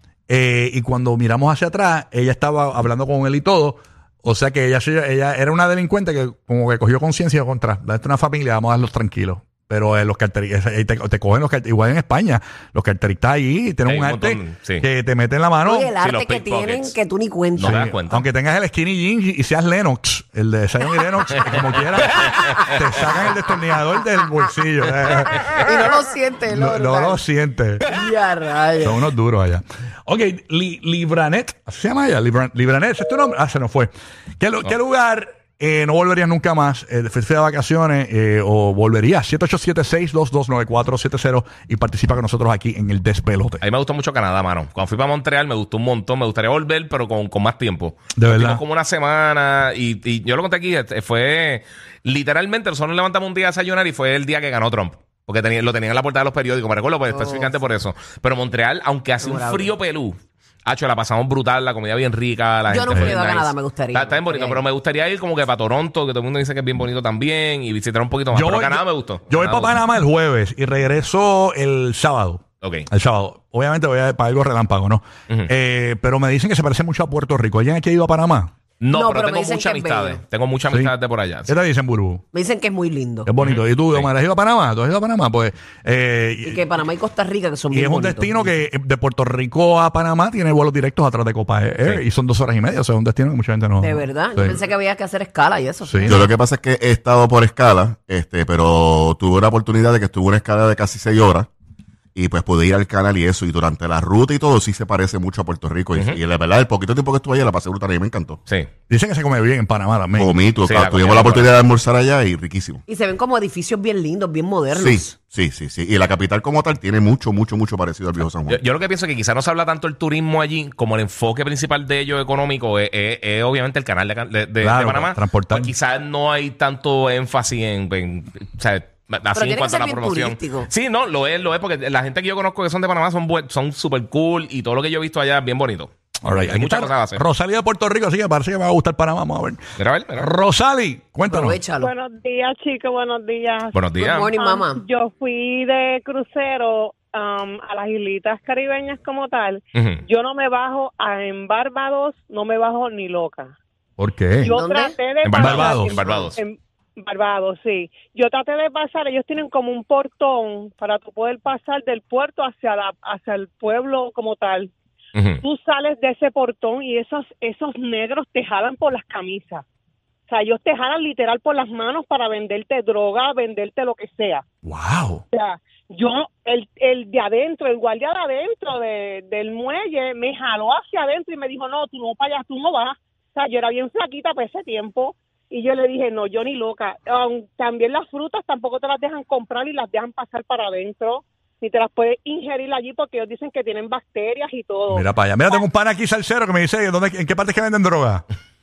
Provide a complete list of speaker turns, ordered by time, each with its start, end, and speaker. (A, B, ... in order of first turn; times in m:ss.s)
0:00.3-0:15.9 A
0:13.9-0:14.8 B
0:15.6-0:17.9 C
0:16.0-0:17.0 B
0:17.6-0:18.2 B
0:17.6-0:25.9 A
0:22.3-0:22.6 B
0:25.6-0:27.2 C
0:26.5-0:27.9 A
0:27.9-0:29.1 C
0:28.8-0:43.6 A
0:43.6-1:09.7 B
0:48.2-0:48.6 A
0:57.1-0:57.6 C
0:59.2-0:59.8 C
1:02.7-1:04.6 C
1:08.3-1:18.5 A
1:12.6-1:12.9 B
1:18.8-1:21.5 B
1:18.9-1:20.2 C
1:21.4-1:22.2 A
1:22.3-1:23.3 C
1:23.2-1:26.6 A
1:23.4-1:24.1 B
1:26.4-1:28.5 C
1:27.7-1:34.6 A
1:33.8-1:36.3 C
1:35.9-1:36.3 A
1:36.1-1:41.5 D
1:42.2-1:48.4 D
1:45.9-1:46.2 B
1:48.9-1:50.4 A
1:50.2-1:52.8 D
1:50.6-1:51.6 B
1:52.9-1:55.2 C
1:54.7-1:58.6 D
1:58.5-2:17.2 B
2:04.6-2:05.7 A
2:09.4-2:10.7 C
2:16.2-2:19.6 A
2:19.8-2:20.3 B
2:20.2-2:21.6 A
2:21.3-2:21.9 C
2:21.8-2:33.5 E
2:23.7-2:24.3 B
2:24.0-2:24.8 C
2:29.8-2:30.0 B
2:34.0-2:34.5 A
2:34.4-2:44.7 E
2:34.5-2:35.0 C
2:35.2-2:36.4 B
2:35.4-2:35.9 A
2:45.2-2:45.4 B
2:45.4-2:49.6 E
2:50.3-2:54.4 E
2:54.6-2:55.2 A
2:55.3-3:15.0 E
3:14.9-3:18.2 A